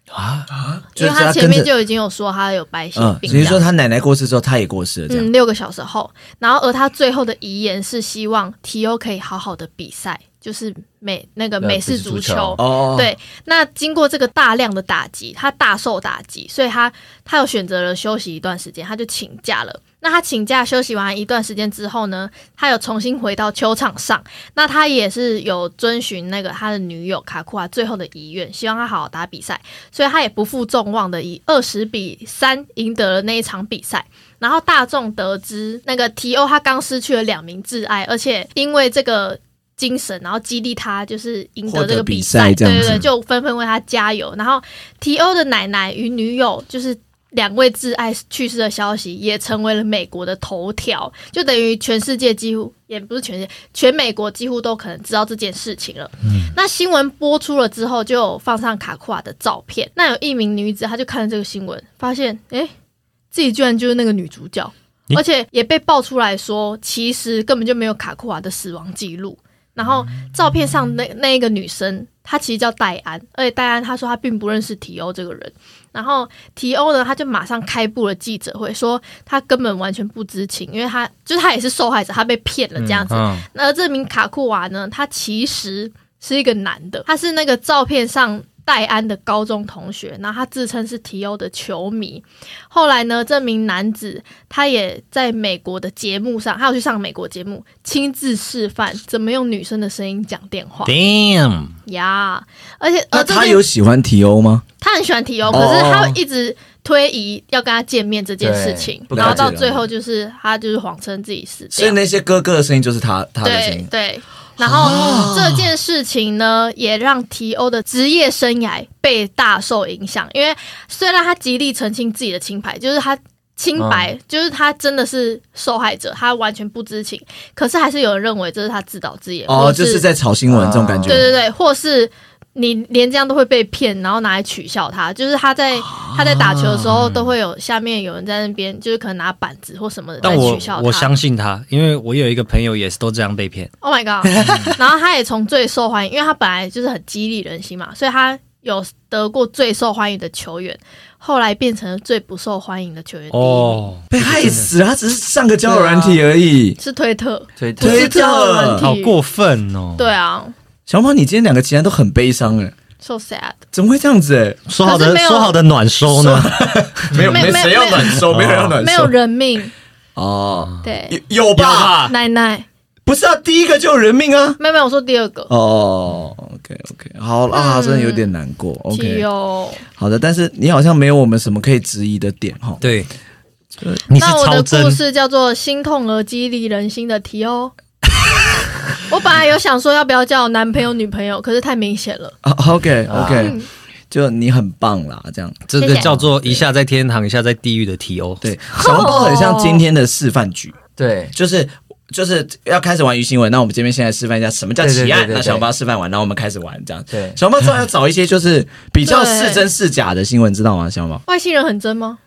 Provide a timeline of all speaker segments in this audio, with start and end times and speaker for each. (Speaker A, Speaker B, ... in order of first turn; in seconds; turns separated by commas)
Speaker A: 0.1-0.5, Speaker B: 0.5-1.7, Speaker C: 1.0-3.6, Speaker B: 3.0-5.3, Speaker D: 3.3-3.6, Speaker C: 5.1-62.7, Speaker D: 11.6-12.6, Speaker B: 12.6-13.1, Speaker B: 41.7-43.0, Speaker C: 63.3-100.9, Speaker D: 82.8-83.1, Speaker A: 83.1-83.4, Speaker A: 100.8-101.7, Speaker C: 101.9-103.6, Speaker B: 103.1-104.6, Speaker C: 104.8-112.0, Speaker B: 105.5-106.2, Speaker D: 108.4-109.5, Speaker B: 109.1-109.8, Speaker B: 111.7-113.9, Speaker C: 113.4-130.1, Speaker B: 114.6-115.7, Speaker D: 123.8-124.1, Speaker B: 129.5-131.3, Speaker D: 130.5-131.3, Speaker C: 131.1-141.1, Speaker B: 135.9-136.4, Speaker A: 136.8-137.3, Speaker A: 140.2-143.7, Speaker C: 143.8-153.8, Speaker A: 144.2-144.8, Speaker A: 153.3-154.7, Speaker B: 154.1-156.8, Speaker D: 155.7-156.2, Speaker C: 156.8-159.2, Speaker D: 157.6-158.1, Speaker B: 157.8-158.9, Speaker A: 158.8-160.1, Speaker C: 160.0-160.5, Speaker B: 160.9-162.7, Speaker C: 163.0-163.6, Speaker B: 163.7-164.6, Speaker A: 164.7-166.5, Speaker C: 164.8-165.6, Speaker B: 166.1-169.1, Speaker C: 167.2-168.2, Speaker A: 168.2-168.8, Speaker C: 168.8-169.7, Speaker B: 170.2-172.0, Speaker C: 170.8-171.2, Speaker A: 171.6-172.1, Speaker C: 172.0-172.7, Speaker B: 173.1-174.6, Speaker C: 174.6-175.5, Speaker B: 175.5-179.3, Speaker C: 177.5-178.3, Speaker C: 178.9-179.8, Speaker B: 180.0-182.8, Speaker A: 182.8-183.1, Speaker A: 184.1-185.0, Speaker C: 184.2-187.7, Speaker C: 189.0-192.3, Speaker B: 192.4-193.6, Speaker D: 193.1-193.5, Speaker C: 193.4-193.7, Speaker B: 194.1-195.6, Speaker A: 195.7-198.4, Speaker C: 195.8-196.2, Speaker B: 198.4-200.8, Speaker C: 198.8-199.8, Speaker D: 201.0-201.3, Speaker B: 201.3-211.2, Speaker D: 204.8-205.7, Speaker D: 207.1-207.4, Speaker C: 209.1-209.7, Speaker C: 211.3-212.2